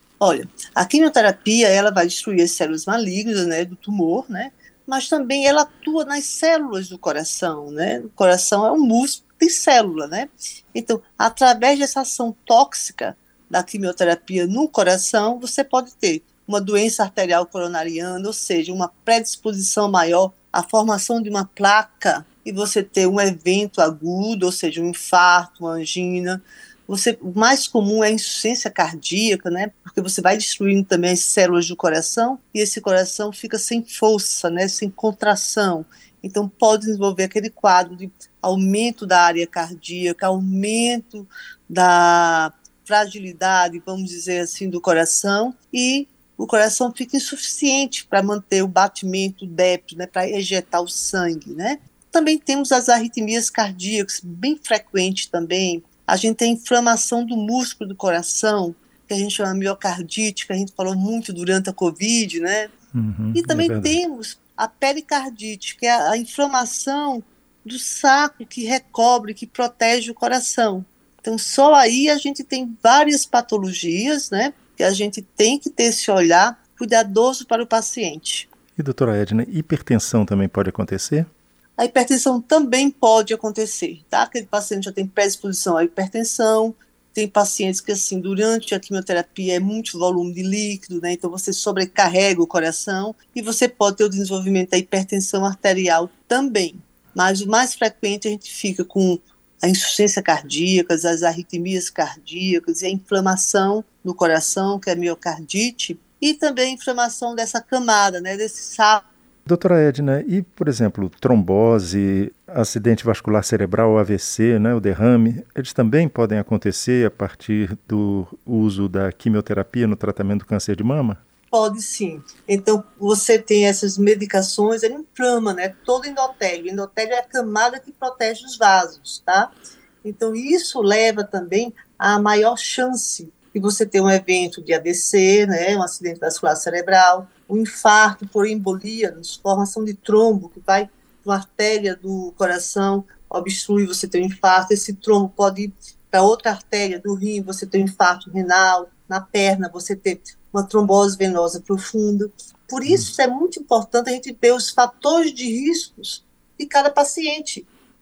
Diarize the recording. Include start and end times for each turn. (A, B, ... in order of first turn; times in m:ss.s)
0:00.2-1:02.7 A
1:02.9-1:04.0 B
1:03.3-1:18.5 A
1:18.8-1:21.3 B
1:21.8-1:49.0 A
1:49.5-2:01.2 B
2:01.5-2:37.7 A